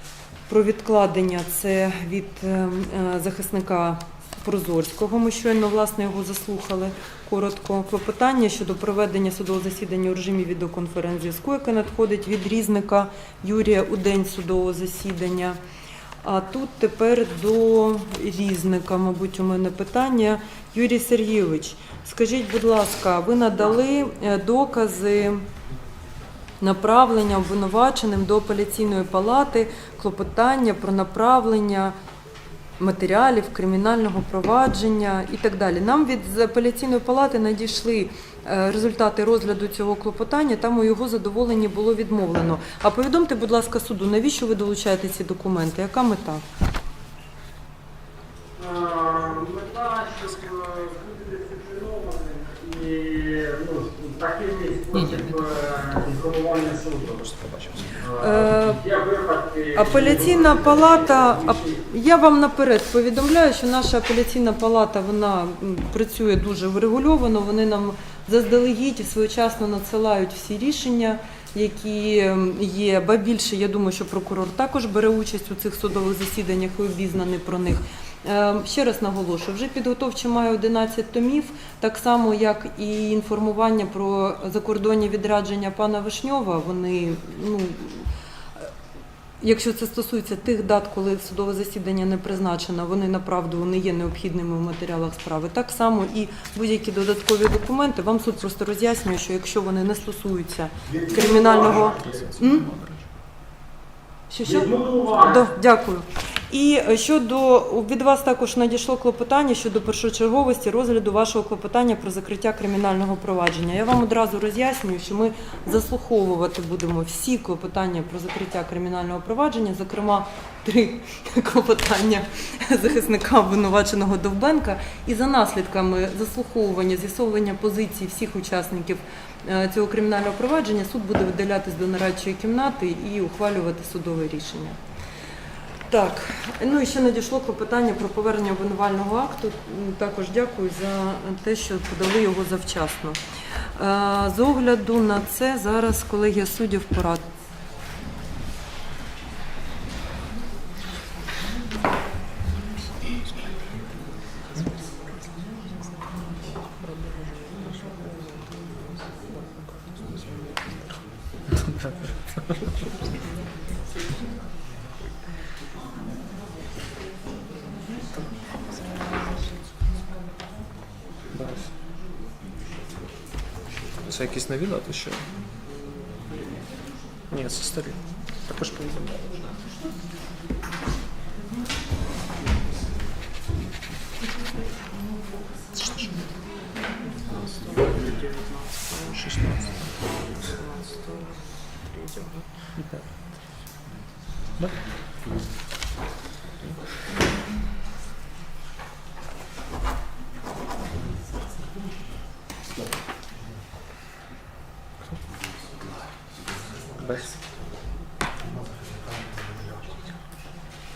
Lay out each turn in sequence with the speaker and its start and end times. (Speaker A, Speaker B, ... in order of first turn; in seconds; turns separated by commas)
Speaker A: 0.5-15.6, Speaker A: 16.2-25.4, Speaker A: 26.6-31.9, Speaker A: 32.8-46.4, Speaker B: 48.6-57.0, Speaker C: 54.9-55.8, Speaker C: 57.0-58.0, Speaker A: 58.2-58.9, Speaker B: 58.9-59.4, Speaker A: 59.7-88.1, Speaker A: 89.4-102.7, Speaker C: 101.8-103.0, Speaker A: 104.3-134.8, Speaker A: 135.9-143.2, Speaker A: 143.8-147.3, Speaker C: 157.5-158.0, Speaker C: 171.3-171.7, Speaker C: 174.0-175.3, Speaker C: 177.3-179.4, Speaker C: 189.2-189.8, Speaker C: 192.8-193.4, Speaker C: 194.6-194.9, Speaker C: 207.0-207.3